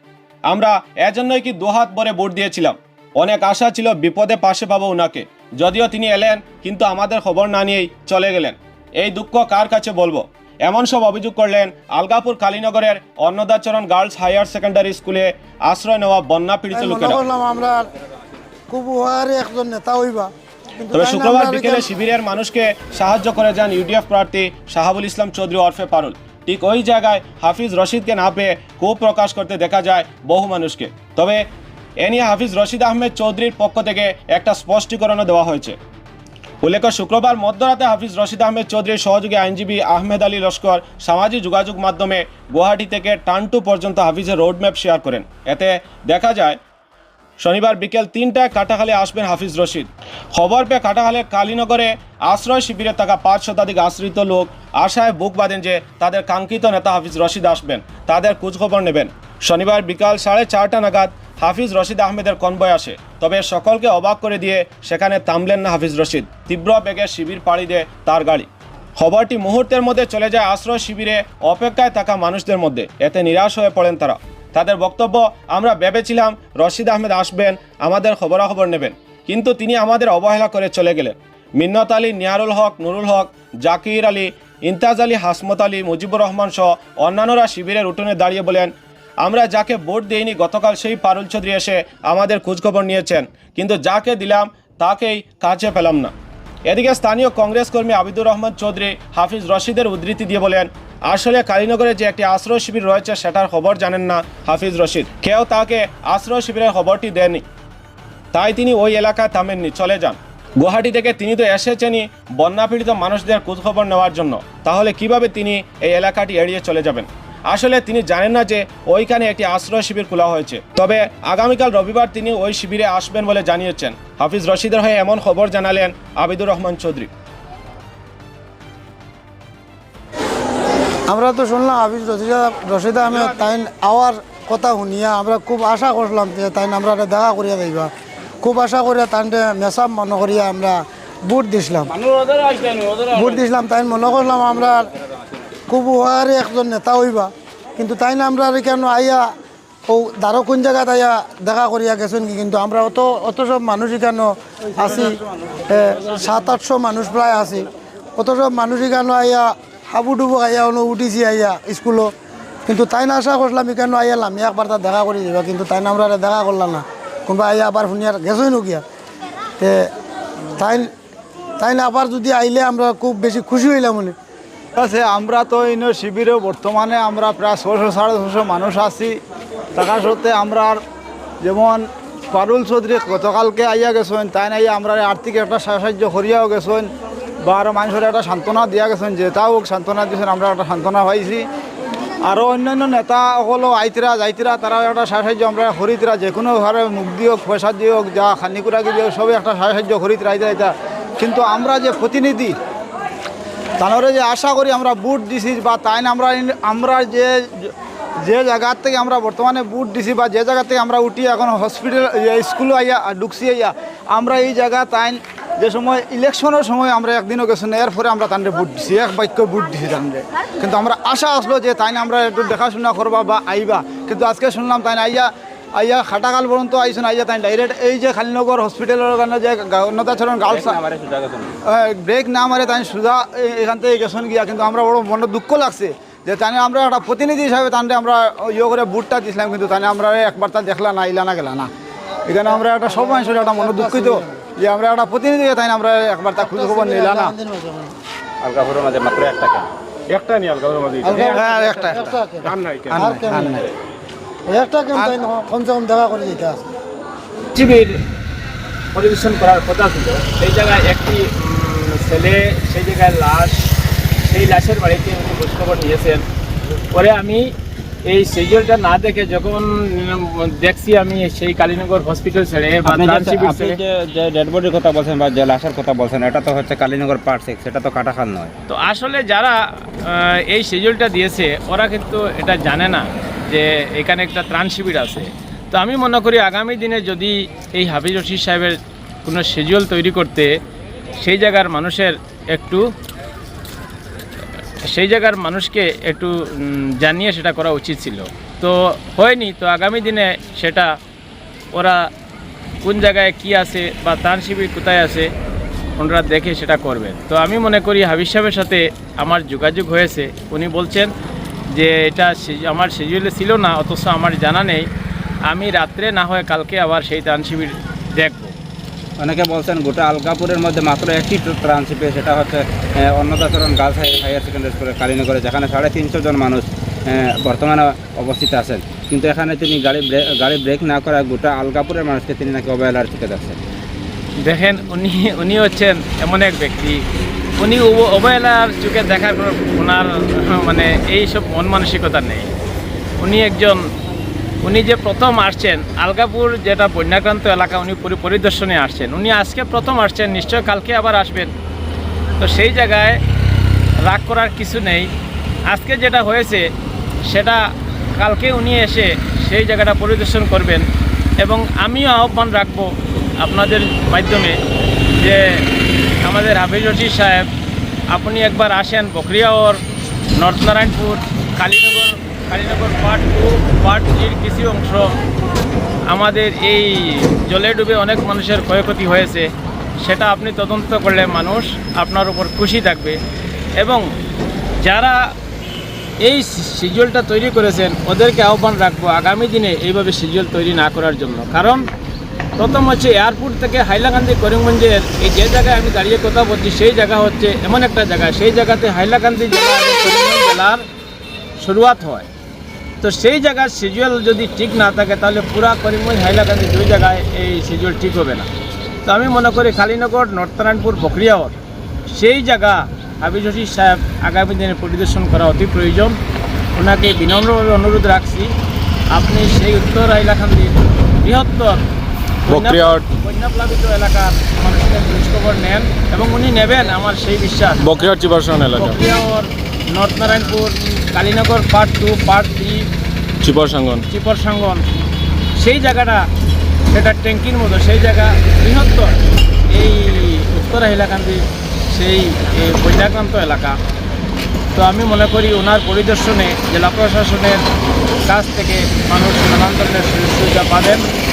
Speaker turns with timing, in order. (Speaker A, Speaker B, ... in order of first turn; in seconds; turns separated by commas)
Speaker A: 0.5-17.2, Speaker B: 16.7-17.8, Speaker B: 18.7-21.8, Speaker A: 20.9-31.4, Speaker A: 32.0-35.8, Speaker A: 36.6-46.6, Speaker A: 47.4-96.1, Speaker A: 96.7-107.4, Speaker A: 108.3-127.1, Speaker B: 131.1-137.9, Speaker B: 138.4-141.9, Speaker C: 142.0-143.1, Speaker B: 143.1-144.9, Speaker B: 145.7-149.3, Speaker B: 149.9-162.1, Speaker B: 162.7-168.8, Speaker B: 169.6-169.9, Speaker B: 170.5-170.9, Speaker B: 171.6-174.2, Speaker D: 174.7-179.2, Speaker D: 179.7-180.8, Speaker D: 181.4-186.9, Speaker D: 187.4-191.4, Speaker D: 192.2-202.5, Speaker D: 203.8-230.8, Speaker C: 230.4-231.5, Speaker D: 231.6-241.7, Speaker D: 242.3-247.3, Speaker B: 242.8-244.4, Speaker B: 246.4-247.9, Speaker C: 248.4-249.7, Speaker A: 250.1-251.4, Speaker B: 251.0-253.5, Speaker D: 251.2-252.1, Speaker A: 252.4-253.0, Speaker D: 252.9-253.7, Speaker B: 254.5-256.6, Speaker E: 257.5-258.0, Speaker E: 258.9-263.7, Speaker E: 264.2-266.2, Speaker E: 266.9-267.4, Speaker E: 268.1-273.8, Speaker C: 272.8-278.5, Speaker E: 278.7-290.5, Speaker E: 291.2-292.8, Speaker E: 294.9-300.9, Speaker E: 301.7-302.1, Speaker E: 302.8-305.3, Speaker E: 306.0-311.1, Speaker E: 311.7-314.9, Speaker E: 315.5-318.5, Speaker C: 319.2-333.6, Speaker E: 334.4-337.0, Speaker E: 337.6-342.5, Speaker E: 343.2-343.8, Speaker E: 344.6-351.5, Speaker E: 352.4-353.2, Speaker E: 354.1-355.1, Speaker E: 355.7-356.6, Speaker E: 357.3-357.6, Speaker E: 358.2-360.8, Speaker E: 361.4-364.6, Speaker E: 365.2-365.6, Speaker E: 366.2-367.4, Speaker E: 368.1-369.8, Speaker E: 370.4-375.2, Speaker E: 376.1-379.5, Speaker E: 380.0-383.2, Speaker E: 383.8-384.1, Speaker E: 384.8-385.2, Speaker E: 386.2-391.8, Speaker E: 392.6-400.8, Speaker E: 401.6-402.3, Speaker E: 403.0-408.5, Speaker E: 409.0-411.5, Speaker E: 412.1-416.2, Speaker E: 416.8-418.5, Speaker E: 419.1-421.8, Speaker E: 422.4-428.1, Speaker A: 422.5-423.0, Speaker A: 427.8-429.0, Speaker E: 428.7-432.9, Speaker A: 433.4-434.0, Speaker E: 434.1-434.9, Speaker E: 435.6-436.2, Speaker E: 436.9-439.2, Speaker E: 439.7-443.8, Speaker E: 444.8-447.6, Speaker E: 448.3-451.0